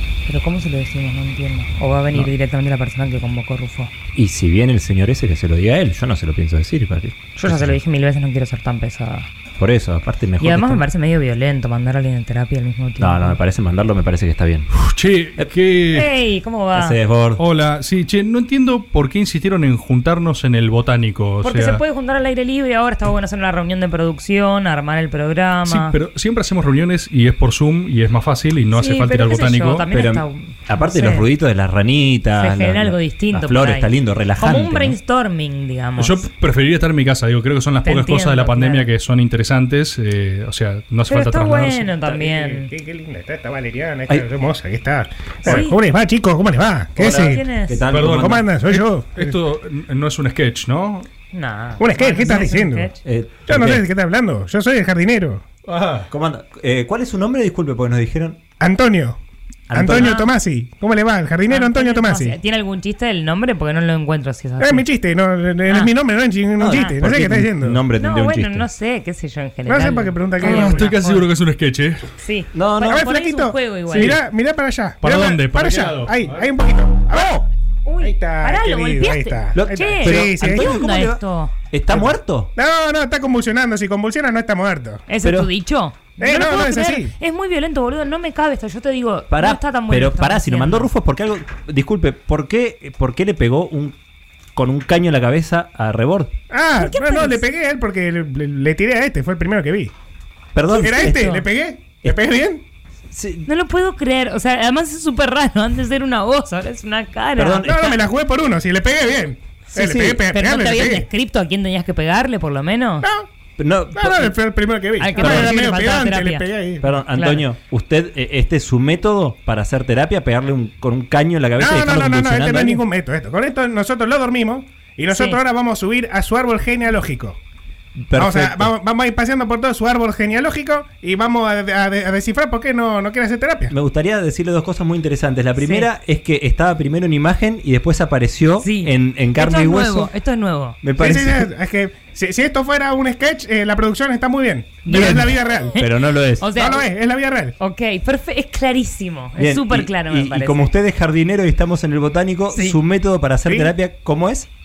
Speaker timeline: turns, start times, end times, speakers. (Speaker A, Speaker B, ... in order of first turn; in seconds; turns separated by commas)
Speaker A: 0.2-3.9, Speaker B: 4.1-7.8, Speaker A: 7.4-9.3, Speaker B: 9.6-10.8, Speaker A: 10.4-13.4, Speaker B: 13.0-14.7, Speaker C: 14.7-16.1, Speaker A: 15.9-17.0, Speaker B: 16.7-17.4, Speaker C: 17.4-21.8, Speaker A: 21.4-25.9, Speaker C: 25.6-29.9, Speaker A: 28.7-31.3, Speaker B: 29.9-35.0, Speaker A: 32.3-36.2, Speaker C: 36.0-41.9, Speaker A: 37.8-38.9, Speaker A: 41.0-42.7, Speaker D: 42.0-47.4, Speaker A: 45.4-45.8, Speaker B: 47.0-48.5, Speaker A: 47.0-47.9, Speaker C: 47.9-51.1, Speaker D: 48.1-49.4, Speaker A: 51.3-53.0, Speaker D: 51.8-52.9, Speaker B: 53.0-53.8, Speaker D: 53.5-55.4, Speaker C: 55.7-56.1, Speaker B: 56.1-58.4, Speaker D: 58.6-59.2, Speaker B: 59.7-60.1, Speaker D: 59.7-62.4, Speaker A: 59.9-60.3, Speaker A: 61.5-64.8, Speaker D: 64.6-67.8, Speaker A: 65.7-65.9, Speaker B: 66.6-68.7, Speaker A: 66.7-67.0, Speaker A: 68.0-71.3, Speaker D: 69.7-71.0, Speaker C: 70.4-72.0, Speaker A: 72.2-74.2, Speaker B: 72.5-73.0, Speaker D: 72.9-77.4, Speaker C: 75.0-76.5, Speaker B: 77.1-77.4, Speaker A: 77.8-81.5, Speaker D: 78.0-80.7, Speaker B: 79.5-82.5, Speaker D: 81.9-85.0, Speaker A: 85.1-90.9, Speaker B: 85.2-85.5, Speaker D: 86.2-87.1, Speaker B: 89.3-94.0, Speaker B: 94.5-96.3, Speaker D: 96.5-99.9, Speaker A: 96.8-97.4, Speaker B: 100.5-101.2, Speaker A: 100.7-101.4, Speaker D: 100.8-102.6, Speaker B: 103.1-103.5, Speaker A: 103.4-107.9, Speaker B: 107.4-107.9, Speaker D: 107.6-111.1, Speaker A: 109.7-113.1, Speaker D: 113.0-113.3, Speaker B: 113.6-114.3, Speaker D: 113.9-116.8, Speaker A: 115.0-116.4, Speaker B: 115.1-115.6, Speaker B: 116.8-122.8, Speaker A: 117.1-117.5, Speaker D: 121.6-127.4, Speaker A: 125.1-125.4, Speaker B: 128.0-128.7, Speaker D: 128.2-133.7, Speaker B: 133.7-140.1, Speaker A: 135.6-135.9, Speaker A: 138.6-140.8, Speaker B: 140.8-141.5, Speaker D: 141.0-145.8, Speaker A: 144.8-146.9, Speaker B: 144.9-146.5, Speaker D: 146.5-147.5, Speaker A: 147.6-150.7, Speaker B: 149.3-154.5, Speaker A: 152.5-152.8, Speaker D: 153.4-153.7